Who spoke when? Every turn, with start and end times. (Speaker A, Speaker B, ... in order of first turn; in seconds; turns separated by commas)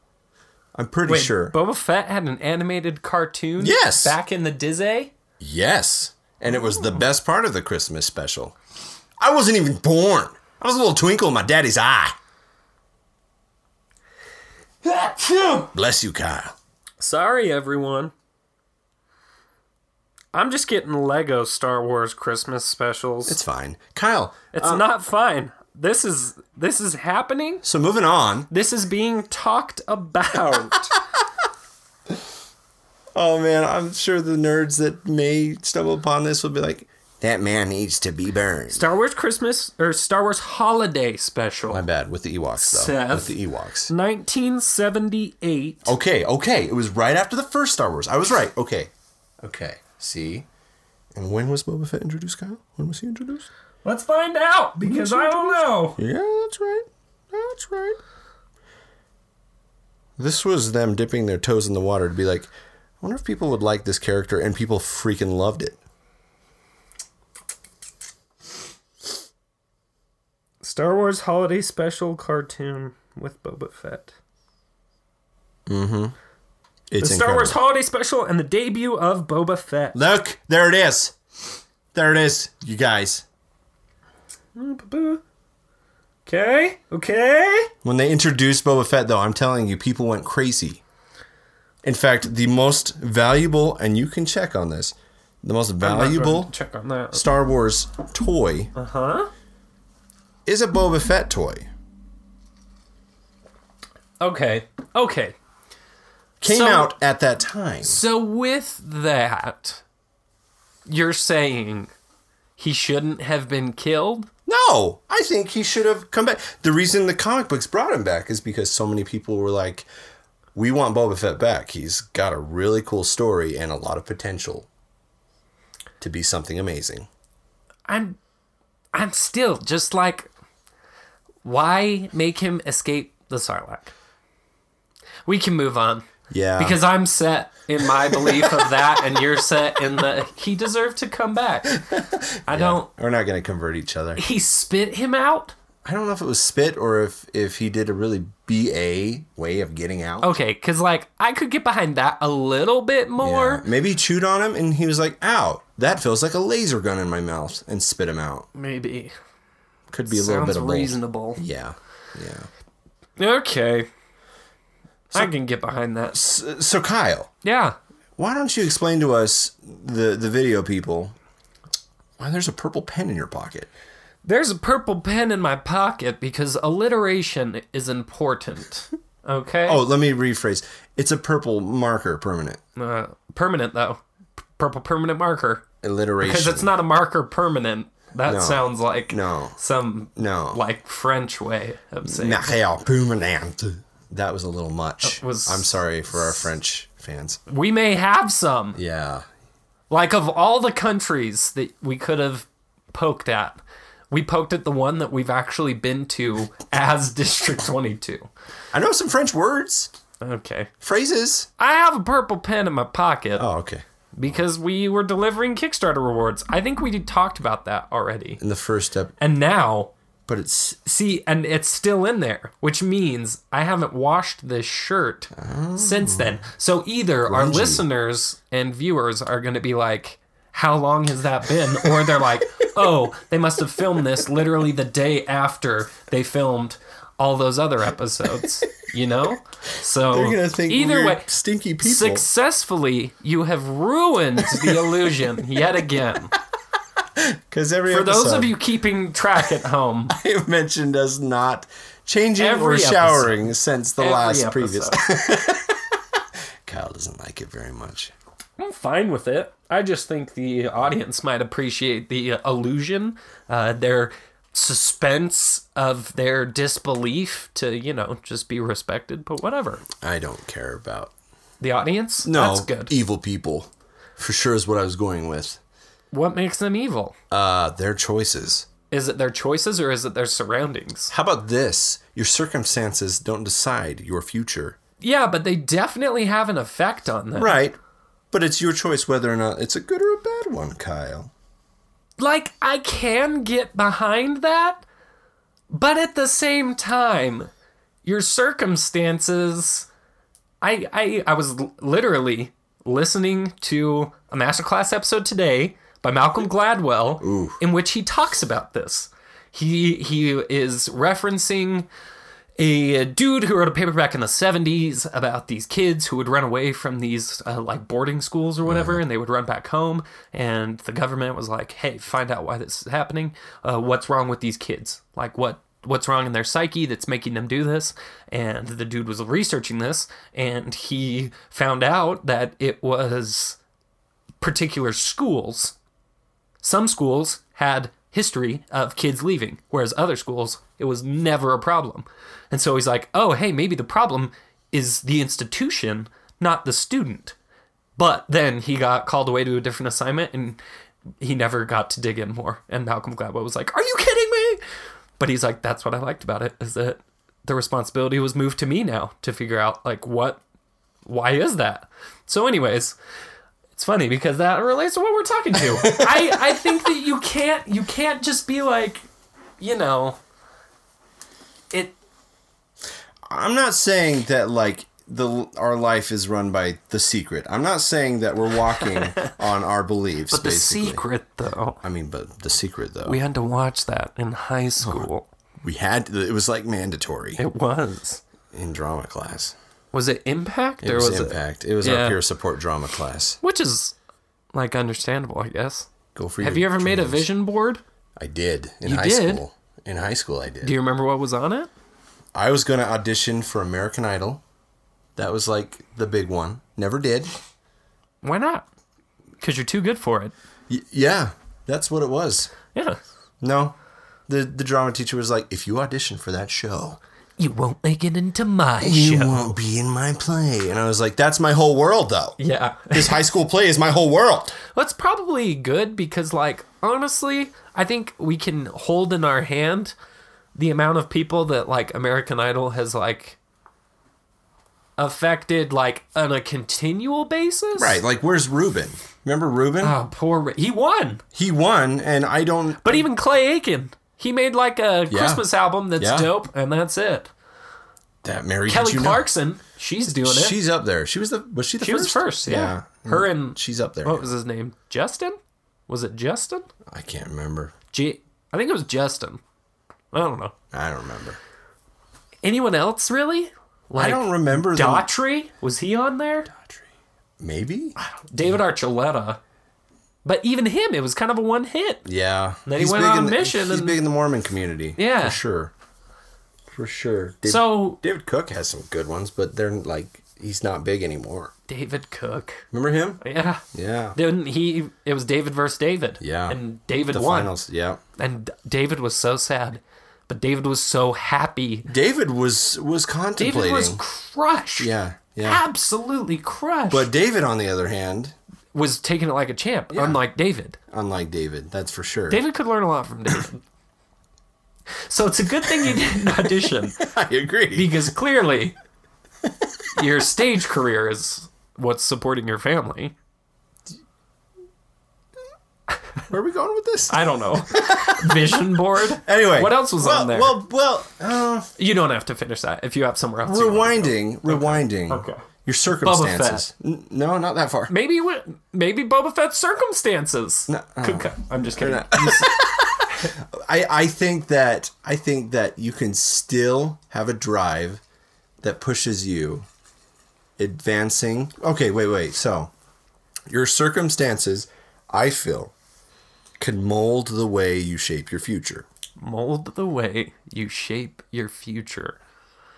Speaker A: 0.8-1.6, Speaker B: 1.1-5.1, Speaker A: 3.6-4.2, Speaker A: 5.4-8.6, Speaker A: 9.2-12.2, Speaker B: 14.9-15.6, Speaker A: 15.2-16.5, Speaker B: 17.0-18.1, Speaker B: 20.3-23.4, Speaker A: 23.3-24.9, Speaker B: 24.5-27.6, Speaker A: 27.6-28.5, Speaker B: 28.5-31.0, Speaker A: 33.2-38.9, Speaker B: 38.7-41.9, Speaker A: 41.7-43.9, Speaker B: 42.6-43.4, Speaker B: 43.9-45.9, Speaker A: 45.9-50.5, Speaker A: 51.1-53.5, Speaker B: 53.8-56.0, Speaker A: 54.8-58.0, Speaker A: 60.2-62.5, Speaker A: 63.0-65.8, Speaker B: 70.6-74.2, Speaker A: 75.7-76.2, Speaker A: 76.9-77.6, Speaker B: 77.0-80.0, Speaker A: 79.9-81.2, Speaker A: 81.9-83.3, Speaker B: 84.5-85.2, Speaker B: 86.3-87.7, Speaker A: 87.8-90.8, Speaker A: 91.8-96.5, Speaker B: 95.8-97.2, Speaker A: 97.1-98.7, Speaker B: 98.8-99.3, Speaker A: 100.5-101.7, Speaker B: 104.2-105.3, Speaker A: 106.4-108.0, Speaker B: 106.5-107.0, Speaker B: 107.8-109.8, Speaker B: 110.9-111.9, Speaker B: 112.6-114.3, Speaker A: 114.5-119.9, Speaker A: 120.5-124.7, Speaker A: 126.0-127.1, Speaker B: 127.9-128.2, Speaker B: 128.9-130.3, Speaker B: 131.4-133.9, Speaker B: 135.3-136.1, Speaker A: 136.3-136.8, Speaker B: 136.6-141.8, Speaker A: 138.1-138.7, Speaker A: 141.8-144.2, Speaker B: 142.5-142.9, Speaker B: 144.2-145.6, Speaker A: 145.8-150.3, Speaker B: 150.2-153.7, Speaker A: 153.2-158.5, Speaker B: 158.6-159.1, Speaker A: 159.9-162.5, Speaker B: 160.1-161.4, Speaker B: 163.2-163.9, Speaker B: 165.1-166.2, Speaker A: 166.1-167.3, Speaker B: 167.4-167.8, Speaker A: 168.2-171.1, Speaker A: 172.2-173.7, Speaker B: 174.2-179.8, Speaker A: 179.7-182.6, Speaker B: 182.8-184.0, Speaker B: 184.6-185.7, Speaker A: 185.8-186.7, Speaker B: 186.2-192.6, Speaker A: 188.3-189.6, Speaker A: 190.2-190.6, Speaker A: 192.1-197.4, Speaker B: 195.0-195.8, Speaker B: 197.5-198.8, Speaker A: 198.8-199.2, Speaker B: 199.9-203.6, Speaker B: 204.1-208.3, Speaker A: 208.7-209.9, Speaker B: 210.2-210.7, Speaker A: 210.8-211.5, Speaker B: 211.6-213.4, Speaker A: 213.4-213.8, Speaker B: 214.2-218.4, Speaker A: 218.4-219.2, Speaker B: 219.2-219.9, Speaker A: 220.3-220.8, Speaker B: 220.8-241.3, Speaker A: 225.3-226.4, Speaker A: 227.3-227.8, Speaker A: 231.8-232.2, Speaker A: 240.1-242.3, Speaker B: 241.8-246.3, Speaker A: 244.4-245.2, Speaker A: 247.2-248.6, Speaker B: 247.9-250.2, Speaker A: 250.1-256.0, Speaker B: 252.4-253.5, Speaker B: 254.0-255.0, Speaker A: 256.6-258.1, Speaker B: 258.6-269.8, Speaker A: 269.9-271.1, Speaker B: 271.6-272.9, Speaker A: 272.2-275.6, Speaker B: 276.1-277.1, Speaker A: 277.3-278.7, Speaker B: 278.9-281.1, Speaker A: 281.1-284.8, Speaker B: 285.0-287.6, Speaker A: 287.4-287.8, Speaker A: 288.3-291.3, Speaker B: 292.2-294.8, Speaker B: 295.7-297.5, Speaker B: 298.0-299.9, Speaker B: 300.6-311.9, Speaker A: 307.2-307.6, Speaker B: 312.6-333.6, Speaker A: 318.7-319.0, Speaker B: 334.4-335.8, Speaker B: 336.6-347.4, Speaker B: 348.0-350.6, Speaker B: 351.2-354.6, Speaker B: 355.2-360.4, Speaker B: 361.1-363.0, Speaker B: 363.8-369.1, Speaker A: 365.6-366.6, Speaker B: 369.6-370.2, Speaker B: 371.7-372.0, Speaker A: 373.3-381.0, Speaker B: 378.8-379.3, Speaker B: 380.3-381.8, Speaker A: 381.8-383.2, Speaker B: 383.1-385.3, Speaker A: 384.8-385.1, Speaker A: 385.6-387.4, Speaker B: 387.4-388.2, Speaker A: 388.5-389.6, Speaker B: 389.9-392.2, Speaker A: 390.8-393.4, Speaker B: 393.4-393.9, Speaker B: 394.5-395.9, Speaker A: 396.1-397.3, Speaker B: 396.4-397.8, Speaker A: 398.2-400.8, Speaker B: 398.8-399.4, Speaker B: 400.6-401.7, Speaker A: 402.3-404.4, Speaker A: 405.2-407.3, Speaker B: 408.2-408.7, Speaker B: 409.4-410.3, Speaker A: 410.7-412.5, Speaker B: 412.7-413.0, Speaker A: 413.4-413.8, Speaker A: 414.3-417.0, Speaker B: 417.4-419.5, Speaker A: 418.8-422.4, Speaker B: 422.4-423.2, Speaker A: 422.9-424.6, Speaker B: 424.7-429.9, Speaker B: 430.6-433.4, Speaker B: 435.0-438.0, Speaker A: 437.8-440.0, Speaker B: 439.8-441.2, Speaker A: 441.3-443.1, Speaker B: 442.8-447.3, Speaker A: 445.1-446.3, Speaker A: 448.2-449.3, Speaker B: 448.7-450.6, Speaker A: 450.2-454.2, Speaker B: 451.8-456.7, Speaker A: 456.9-457.7, Speaker B: 457.9-459.4, Speaker B: 460.1-460.5, Speaker A: 460.7-461.4, Speaker B: 462.4-466.5, Speaker A: 464.0-465.1, Speaker A: 466.5-466.9, Speaker A: 467.4-468.0, Speaker B: 468.0-469.4, Speaker B: 470.2-472.1, Speaker A: 472.1-475.7, Speaker B: 472.7-474.0, Speaker B: 475.0-475.4, Speaker A: 476.7-481.5, Speaker B: 477.5-478.0, Speaker B: 481.7-482.7, Speaker A: 482.7-483.2, Speaker B: 483.2-483.6, Speaker A: 483.7-484.2, Speaker B: 484.1-487.5, Speaker A: 486.2-486.6, Speaker A: 487.1-488.0, Speaker B: 488.2-491.9, Speaker A: 491.9-494.0, Speaker B: 493.4-497.1, Speaker A: 494.8-495.6, Speaker A: 496.9-498.4, Speaker B: 498.7-500.8, Speaker A: 499.9-500.2, Speaker A: 500.9-502.4, Speaker B: 502.3-503.6, Speaker B: 505.1-507.0, Speaker A: 505.7-508.1, Speaker B: 507.7-508.8, Speaker A: 509.4-509.7, Speaker B: 509.9-513.1, Speaker A: 516.3-521.7, Speaker B: 517.1-520.6, Speaker B: 521.8-525.4, Speaker A: 523.5-527.9, Speaker B: 526.0-526.6, Speaker B: 527.9-533.3, Speaker A: 530.7-538.0, Speaker A: 538.6-539.7, Speaker A: 540.6-542.7, Speaker A: 543.5-545.7, Speaker A: 546.6-548.9, Speaker B: 549.2-552.2